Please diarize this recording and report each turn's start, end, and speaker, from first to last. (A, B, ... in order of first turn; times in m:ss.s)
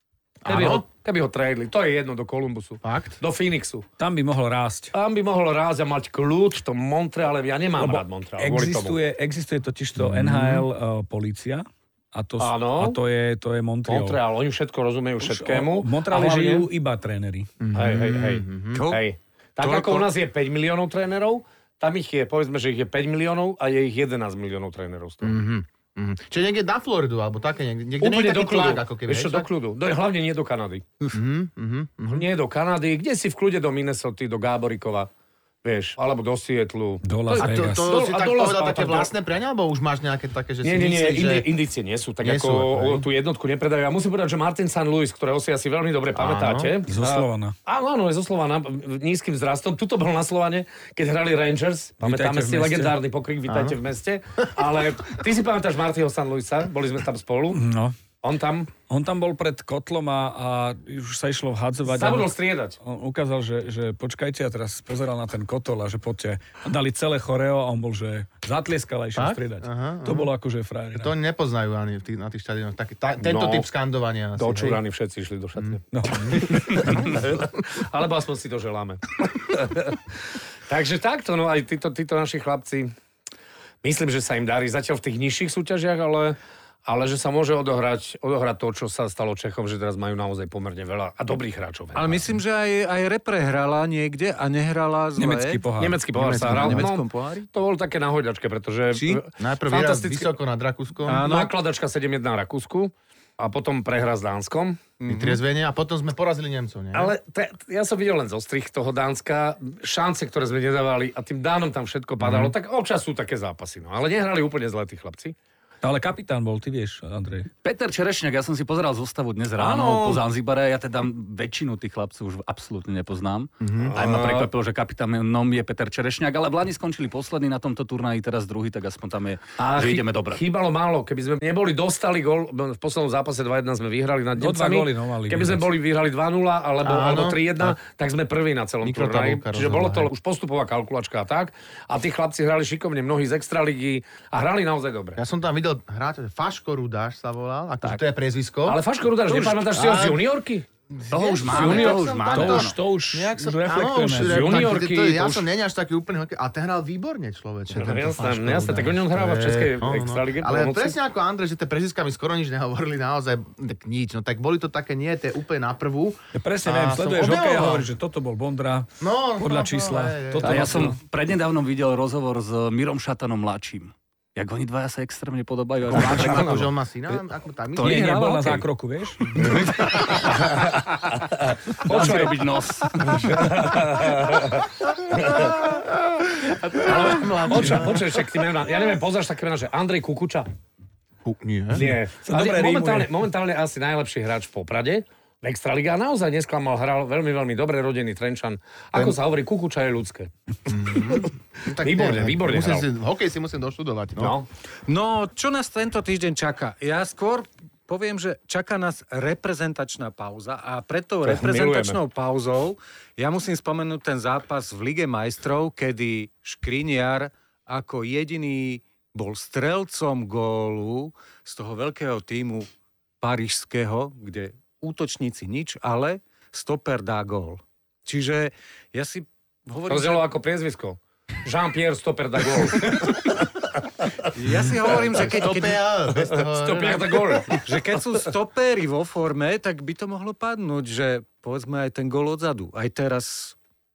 0:00.4-0:00.8 A
0:00.4-0:03.8 B
0:02.8-0:03.2 A
0:04.0-0:04.9 C
0:04.9-0:09.0 B
0:07.8-0:14.2 C
0:10.0-0:10.6 A
0:12.4-0:13.0 B
0:13.9-0:16.7 B
0:15.2-0:17.5 C
0:17.6-0:18.8 A
0:17.7-0:25.4 B
0:18.7-0:19.0 D
0:19.6-0:20.1 D
0:25.2-0:29.5 A
0:28.0-0:31.1 B
0:31.1-0:32.2 A
0:32.1-0:35.1 B
0:35.6-0:39.1 B
0:37.0-0:37.9 C
0:37.4-0:41.5 A
0:40.6-0:57.6 B
0:42.2-0:43.0 A
0:46.1-0:46.7 A
0:46.9-0:47.5 C
0:52.0-0:52.9 C
0:53.5-0:53.8 A
0:57.5-0:58.0 C
0:58.2-0:58.7 B
0:58.9-1:11.1 C
1:01.8-1:02.8 B
1:09.1-1:10.3 A
1:11.0-1:14.8 A
1:13.2-1:13.7 B
1:14.4-1:22.9 B
1:15.6-1:17.2 A
1:15.9-1:17.1 C
1:23.8-1:32.2 B
1:31.9-1:35.6 D
1:35.2-1:36.0 C
1:35.8-1:40.3 B
1:36.1-1:36.9 A
1:36.4-1:37.5 D
1:38.9-1:39.2 D
1:39.4-1:41.3 A
1:41.0-1:41.5 D
1:41.2-1:44.8 B
1:45.0-1:45.4 D
1:45.1-1:47.1 A
1:46.9-1:55.3 B
1:52.2-1:52.5 A
1:55.8-1:57.5 C
1:57.6-2:10.4 E
1:59.6-2:00.2 B
2:03.6-2:03.9 A
2:03.8-2:04.5 B
2:09.6-2:25.2 B
2:14.4-2:15.7 C
2:16.8-2:17.8 A
2:18.8-2:20.1 A
2:25.2-2:30.2 A
2:28.6-2:30.6 B
2:30.9-2:47.9 A
2:31.1-2:32.8 E
2:31.5-2:32.2 B
2:32.2-2:34.7 C
2:34.2-2:35.5 B
2:37.7-2:41.0 B
2:46.3-2:51.0 C
2:49.0-2:51.0 A
2:50.4-2:56.7 E
2:55.9-2:58.2 A
2:57.8-2:58.6 E
2:57.8-2:59.5 C
2:59.3-3:01.2 E
2:59.4-3:00.4 A
3:01.4-3:02.4 B
3:01.8-3:03.4 E
3:03.0-3:05.6 B
3:05.1-3:08.2 A
3:06.8-3:10.5 B
3:11.2-3:11.9 A
3:11.7-3:20.3 B
3:12.2-3:13.1 C
3:20.7-3:24.4 A
3:21.1-3:22.9 B
3:24.2-3:24.5 B
3:24.9-3:42.7 D
3:31.2-3:32.0 B
3:43.2-3:50.2 D
3:49.9-3:53.5 B
3:54.3-3:55.8 D
3:54.8-3:57.5 A
3:56.1-3:57.6 B
3:57.6-4:03.6 D